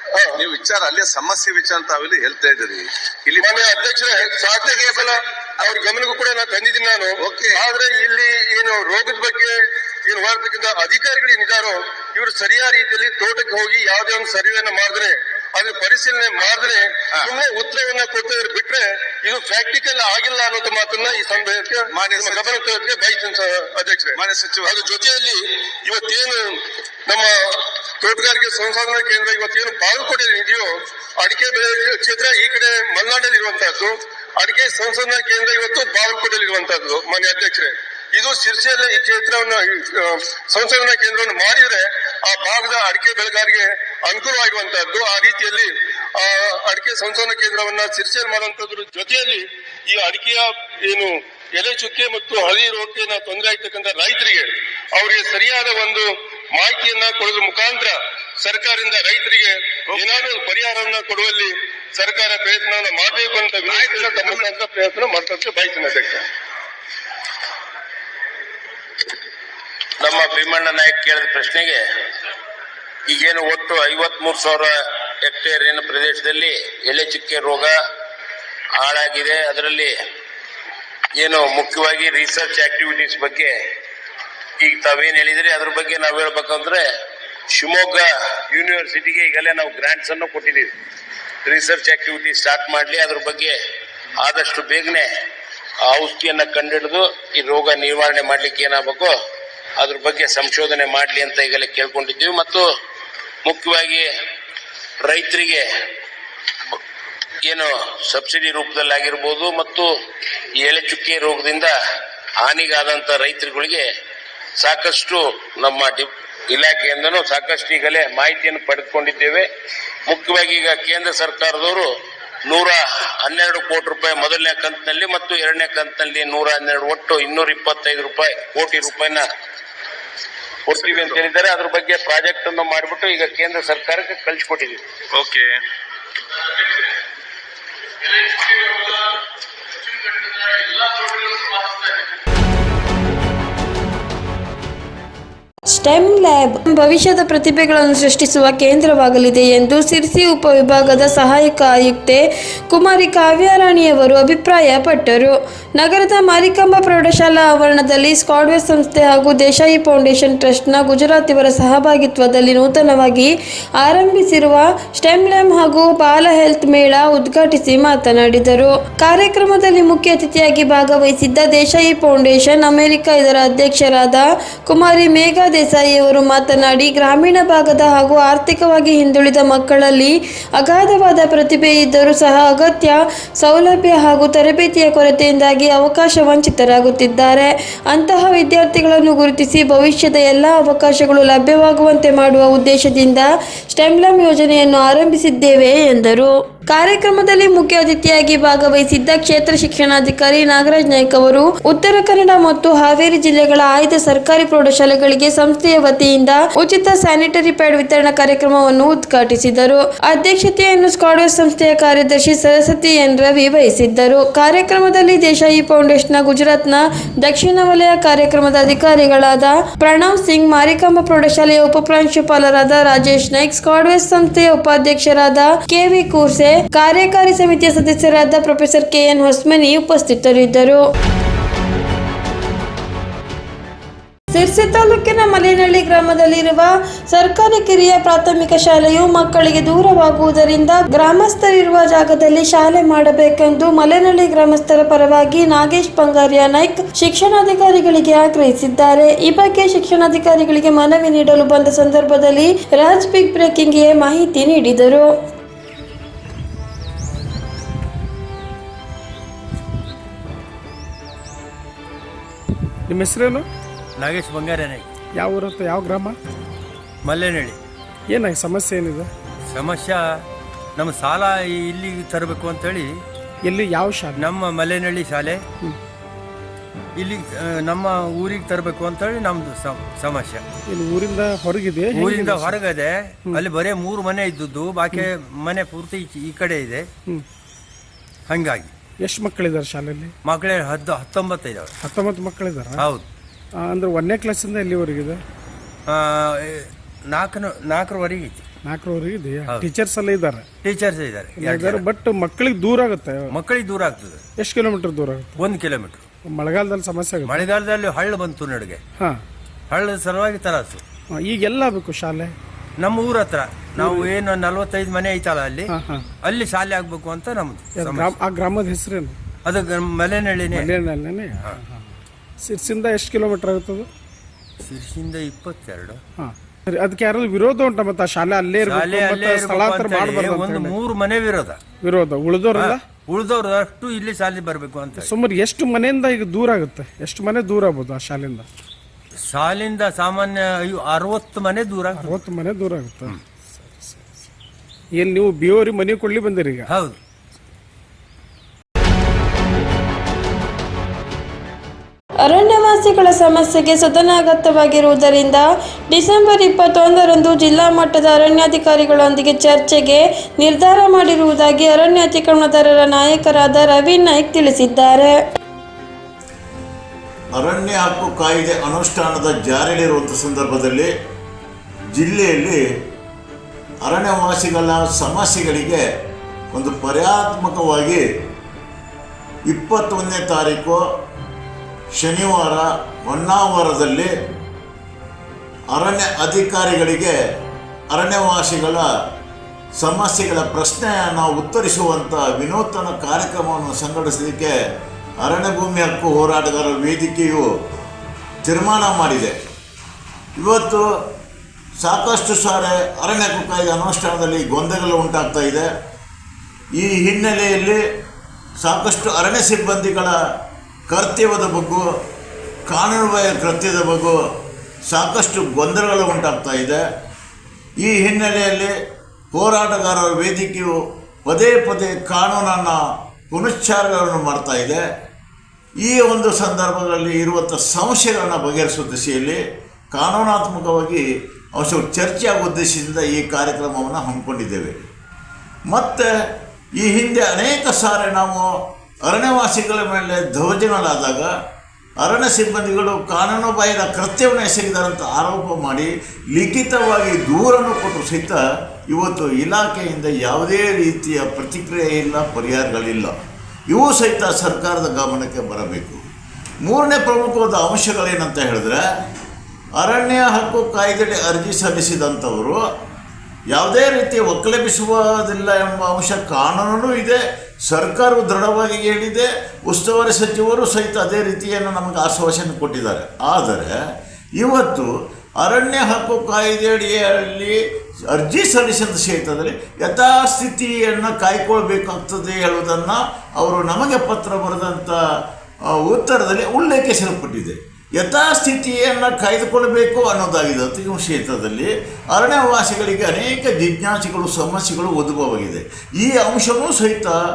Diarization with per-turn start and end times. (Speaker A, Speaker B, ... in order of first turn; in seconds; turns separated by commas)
Speaker A: 0.1-0.4, Speaker B: 0.4-3.9, Speaker A: 3.4-66.2, Speaker B: 4.7-5.8, Speaker B: 7.3-7.6, Speaker B: 21.9-22.6, Speaker B: 24.1-24.8, Speaker B: 63.7-64.4, Speaker C: 70.0-71.8, Speaker C: 73.1-77.8, Speaker C: 78.8-79.9, Speaker C: 81.2-83.5, Speaker C: 84.6-86.8, Speaker C: 87.5-90.7, Speaker C: 91.4-93.5, Speaker C: 94.2-95.1, Speaker C: 95.9-99.1, Speaker C: 99.8-102.7, Speaker C: 103.4-104.1, Speaker C: 105.0-105.7, Speaker C: 107.4-109.9, Speaker C: 110.6-111.7, Speaker C: 112.4-113.9, Speaker C: 114.6-119.5, Speaker C: 120.1-121.9, Speaker C: 122.5-129.2, Speaker C: 130.7-134.8, Speaker B: 130.8-131.2, Speaker B: 135.2-135.5, Speaker D: 145.7-230.8, Speaker D: 234.3-255.1, Speaker E: 262.9-263.5, Speaker F: 264.0-264.9, Speaker E: 265.1-266.2, Speaker F: 267.0-267.6, Speaker E: 268.1-269.1, Speaker F: 269.5-270.2, Speaker F: 270.8-273.0, Speaker E: 273.4-274.3, Speaker F: 274.1-275.4, Speaker F: 276.9-280.4, Speaker E: 280.7-282.7, Speaker F: 281.9-286.9, Speaker F: 288.3-288.7, Speaker E: 289.0-290.1, Speaker F: 290.2-291.7, Speaker E: 291.8-292.9, Speaker F: 292.8-293.1, Speaker E: 293.6-295.2, Speaker F: 295.9-298.4, Speaker E: 298.6-300.4, Speaker F: 300.6-301.8, Speaker E: 301.4-303.4, Speaker F: 303.3-304.2, Speaker E: 304.4-305.5, Speaker F: 305.4-306.0, Speaker E: 306.2-307.5, Speaker F: 307.3-308.8, Speaker F: 309.7-310.8, Speaker E: 311.1-312.3, Speaker F: 312.8-318.1, Speaker E: 313.8-314.1, Speaker E: 315.7-316.1, Speaker E: 317.7-319.2, Speaker F: 319.4-320.7, Speaker E: 320.5-323.9, Speaker F: 324.6-326.0, Speaker E: 326.2-330.8, Speaker F: 328.6-331.6, Speaker E: 331.8-332.8, Speaker F: 332.5-335.1, Speaker E: 334.9-338.5, Speaker F: 339.3-342.1, Speaker E: 341.9-344.1, Speaker E: 345.0-346.7, Speaker F: 346.7-347.0, Speaker D: 352.2-365.2, Speaker G: 367.3-370.9, Speaker G: 371.9-372.6, Speaker G: 373.8-375.8, Speaker G: 376.5-378.0, Speaker G: 379.5-380.8, Speaker G: 381.9-384.1, Speaker G: 385.7-387.1, Speaker G: 387.9-388.8, Speaker G: 389.8-394.5, Speaker G: 395.2-397.5, Speaker G: 398.4-399.3, Speaker G: 400.4-400.8, Speaker G: 401.8-405.7, Speaker G: 406.8-407.8, Speaker G: 408.6-410.1, Speaker G: 410.9-411.8, Speaker G: 412.7-414.2, Speaker G: 414.9-416.8, Speaker G: 417.8-418.7, Speaker G: 419.3-422.8, Speaker G: 423.3-424.8, Speaker G: 425.8-429.4, Speaker G: 429.9-431.0, Speaker G: 431.5-434.9, Speaker G: 435.7-436.1, Speaker G: 436.8-438.5, Speaker G: 439.1-441.3, Speaker G: 442.0-453.1, Speaker G: 453.7-456.0, Speaker G: 456.6-458.8, Speaker G: 459.8-462.6, Speaker G: 463.5-473.8, Speaker G: 474.4-474.9, Speaker G: 475.4-477.6, Speaker G: 478.1-485.0, Speaker G: 485.7-497.1